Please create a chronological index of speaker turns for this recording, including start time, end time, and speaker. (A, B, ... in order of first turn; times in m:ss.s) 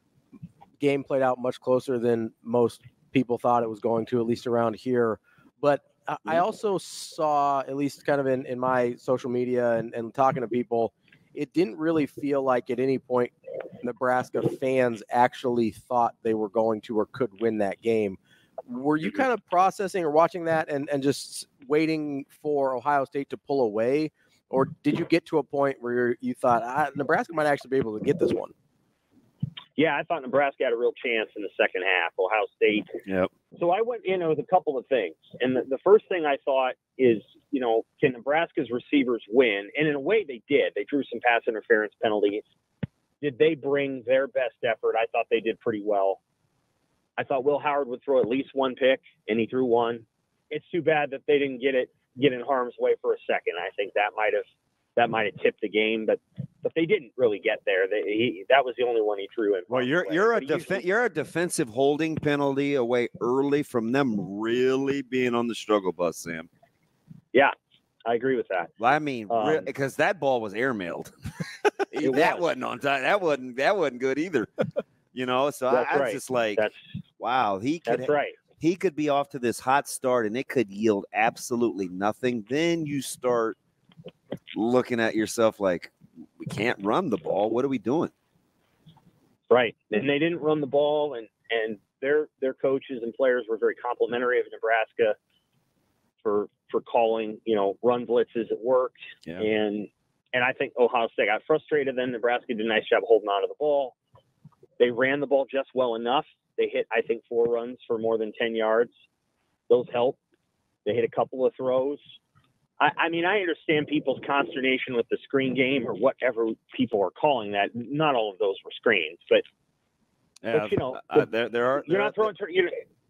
0:00.8-0:28.5 A
0:29.8-0:32.9 B
0:33.6-0:42.4 B
0:43.2-0:46.2 B
0:47.2-0:54.4 B
0:55.0-1:00.8 B
0:59.7-1:06.5 C
1:08.0-1:08.7 B
1:08.8-1:11.1 C
1:09.3-1:09.7 B
1:11.9-1:14.5 C
1:12.0-1:12.4 B
1:15.1-1:16.6 C
1:15.7-1:16.8 B
1:17.2-1:23.6 C
1:17.9-1:18.4 B
1:24.5-1:28.1 C
1:29.5-1:35.2 B
1:36.2-1:44.0 B
1:44.8-1:48.9 B
1:49.7-1:50.2 B
1:50.9-1:52.0 B
1:52.8-1:59.4 B
2:00.4-2:02.3 C
2:00.5-2:01.3 B
2:01.8-2:02.8 B